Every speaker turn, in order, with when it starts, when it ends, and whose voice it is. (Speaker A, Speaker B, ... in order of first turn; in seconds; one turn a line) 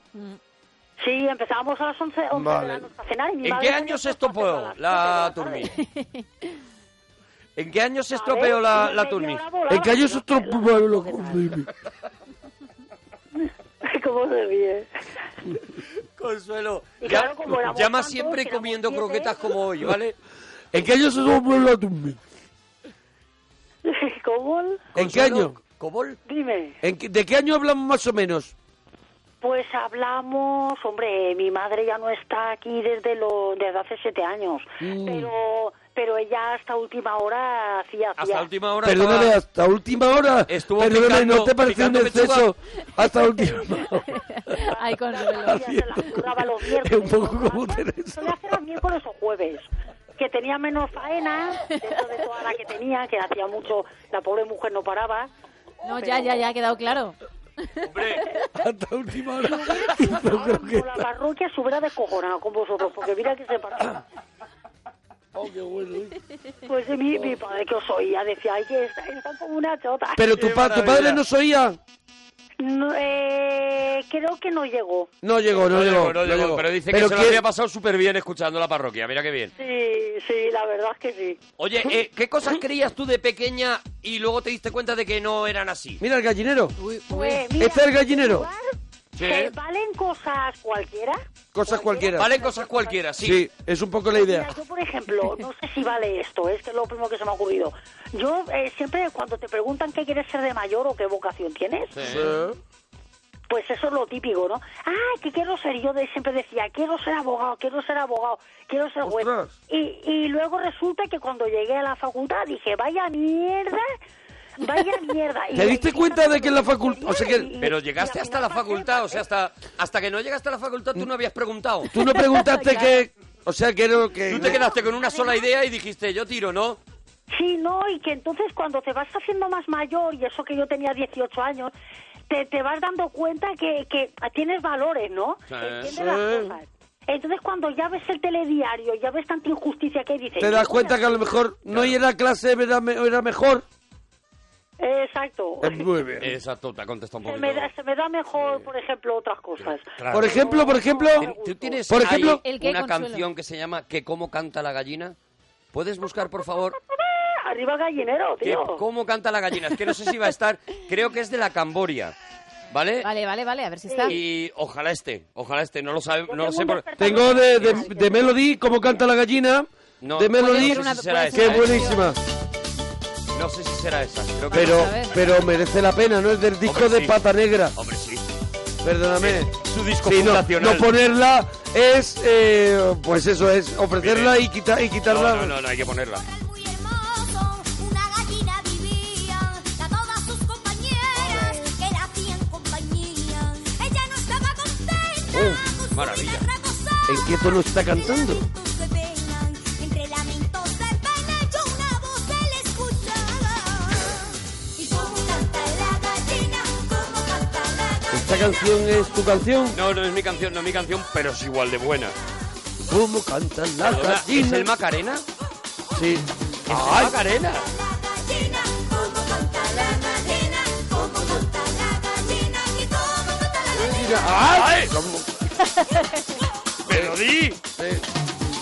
Speaker A: 1.0-5.7
Speaker B: 2.3-2.9
Speaker C: 3.4-5.7
Speaker D: 5.8-6.3
Speaker C: 7.6-9.4
Speaker A: 8.1-11.5
Speaker B: 9.7-11.7
Speaker A: 13.4-14.9
Speaker C: 16.2-20.2
Speaker A: 17.0-19.5
Speaker B: 20.7-22.2
Speaker A: 23.9-24.9
Speaker B: 24.9-25.6
Speaker C: 24.9-26.2
Speaker A: 26.3-26.8
Speaker B: 26.8-28.5
Speaker A: 29.4-38.5
Speaker B: 34.8-35.3
Speaker C: 38.2-39.4
Speaker B: 38.8-44.1
Speaker C: 40.5-42.5
Speaker D: 44.1-45.7
Speaker A: 44.6-55.3
Speaker B: 45.4-48.4
Speaker D: 55.8-57.2
Speaker A: 55.9-56.4
Speaker C: 57.9-58.2
Speaker B: 58.5-61.0
Speaker A: 59.4-64.0
Speaker B: 65.4-66.2
Speaker A: 66.7-70.3
Speaker B: 70.2-71.8
Speaker C: 70.3-71.2
Speaker A: 72.6-75.1
Speaker B: 75.2-77.4
Speaker C: 75.6-79.5
Speaker A: 79.6-81.4
Speaker C: 81.6-86.0
Speaker B: 86.0-86.8
Speaker D: 86.8-87.4
Speaker A: 87.1-93.1
Speaker B: 87.6-88.5
Speaker C: 89.2-89.5
Speaker B: 91.5-92.3
Speaker C: 92.1-93.5
Speaker B: 93.2-94.5
Speaker A: 94.1-102.0
Speaker C: 102.0-102.3
Speaker B: 102.0-102.6
Speaker A: 103.5-113.9
Speaker B: 109.0-109.5
Speaker A: 114.6-119.2
Speaker B: 115.5-117.5
Speaker C: 117.6-121.9
Speaker B: 121.9-124.6
Speaker D: 122.3-123.0
Speaker C: 124.3-126.8
Speaker A: 124.4-125.5
Speaker A: 127.3-131.7
Speaker A: 132.3-141.4
Speaker C: 135.5-135.9
Speaker B: 135.9-136.6
Speaker B: 140.4-143.7
Speaker C: 141.7-142.0
Speaker A: 144.8-145.8
Speaker B: 145.6-146.3
Speaker C: 146.2-147.7
Speaker A: 147.2-151.9
Speaker C: 149.6-150.6
Speaker B: 150.1-151.3
Speaker C: 151.2-155.2
Speaker B: 151.9-152.4
Speaker D: 152.4-153.3
Speaker C: 155.7-156.8
Speaker A: 156.8-158.8
Speaker C: 158.4-162.2
Speaker C: 162.7-163.1
Speaker D: 163.0-164.2
Speaker A: 163.9-164.2
Speaker C: 164.1-167.9
Speaker A: 166.3-168.3
Speaker B: 167.0-172.2
Speaker C: 170.0-171.9
Speaker D: 170.3-172.1
Speaker C: 173.3-174.9
Speaker D: 174.5-175.2
Speaker B: 174.5-177.8
Speaker C: 176.7-177.2
Speaker C: 177.8-178.2
Speaker B: 178.8-185.6
Speaker C: 179.2-180.9
Speaker C: 184.0-184.4
Speaker C: 185.1-186.2
Speaker E: 185.8-209.2
Speaker C: 191.2-191.6
Speaker B: 195.3-195.6
Speaker C: 195.9-196.4
Speaker B: 197.1-198.5
Speaker B: 208.1-209.8
Speaker C: 209.7-212.2
Speaker B: 212.9-214.7
Speaker C: 213.8-215.2
Speaker B: 215.9-217.2
Speaker C: 216.7-217.7
Speaker E: 217.5-224.3
Speaker B: 221.0-221.4
Speaker B: 223.7-225.3
Speaker C: 224.4-225.0
Speaker C: 226.8-227.6
Speaker B: 226.9-227.2
Speaker B: 227.8-228.0